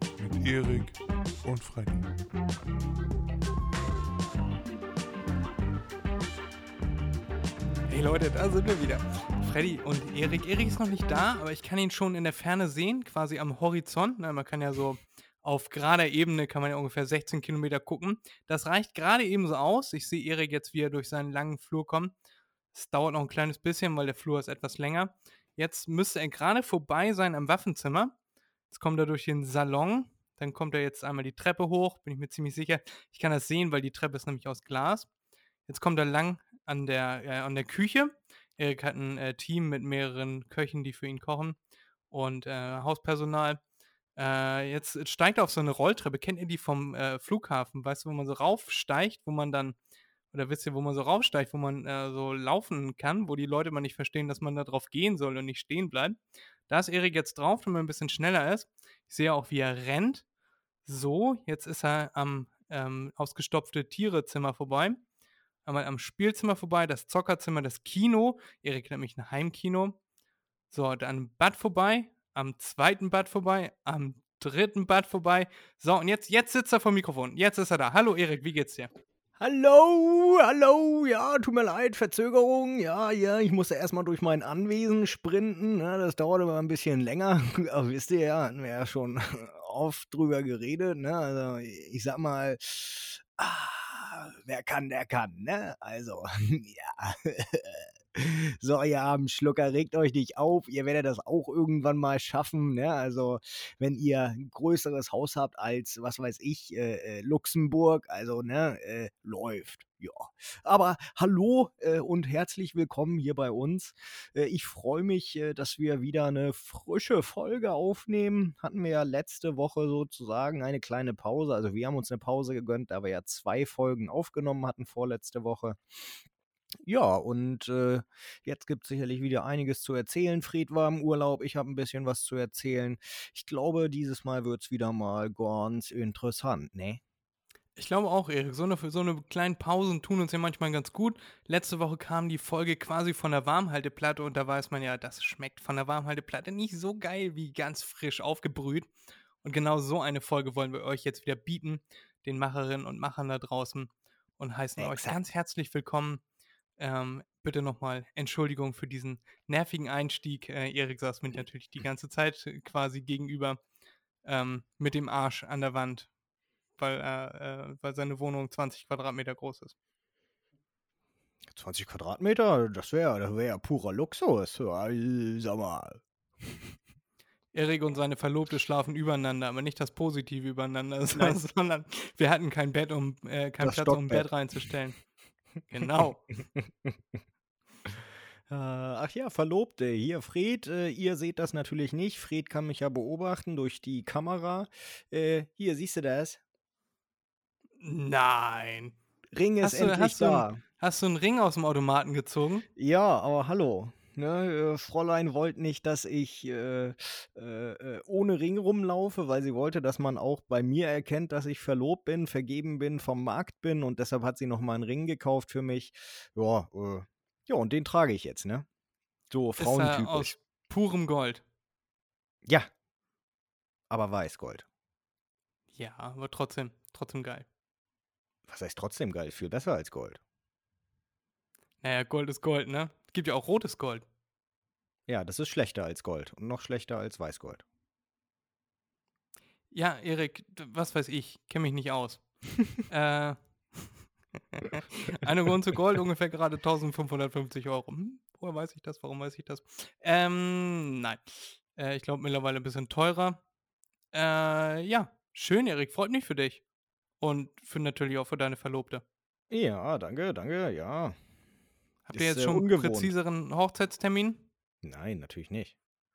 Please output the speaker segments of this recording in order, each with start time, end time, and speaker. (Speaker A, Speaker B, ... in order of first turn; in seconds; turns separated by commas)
Speaker A: 0.2-2.1, Speaker B: 7.9-22.1, Speaker B: 22.7-28.1, Speaker B: 28.7-35.1, Speaker B: 35.7-41.6, Speaker B: 42.1-43.6, Speaker B: 44.1-49.8, Speaker B: 50.3-60.2, Speaker B: 60.8-65.0, Speaker B: 65.7-70.0, Speaker B: 70.7-78.9, Speaker C: 79.4-126.2, Speaker C: 126.8-137.0, Speaker B: 137.8-148.9, Speaker B: 149.4-156.2, Speaker C: 154.8-155.2, Speaker B: 156.8-163.6, Speaker B: 164.2-166.1, Speaker B: 166.8-169.7, Speaker C: 171.5-176.0, Speaker B: 177.5-185.0, Speaker C: 181.1-181.4, Speaker C: 183.6-184.3, Speaker B: 185.7-186.2, Speaker C: 186.5-187.0, Speaker C: 188.5-196.4, Speaker B: 197.8-198.9, Speaker C: 199.3-200.6, Speaker B: 199.6-202.7, Speaker C: 202.8-218.7, Speaker C: 219.3-220.3, Speaker B: 219.6-221.4, Speaker C: 222.4-222.7, Speaker C: 223.9-224.7, Speaker B: 225.8-227.5, Speaker C: 228.5-230.2, Speaker B: 231.8-234.0, Speaker C: 235.1-237.6, Speaker B: 239.7-243.9, Speaker B: 244.6-253.4, Speaker B: 254.1-256.6, Speaker B: 257.2-259.0, Speaker C: 259.5-261.1, Speaker B: 262.1-264.4, Speaker C: 262.1-263.1, Speaker C: 264.8-265.7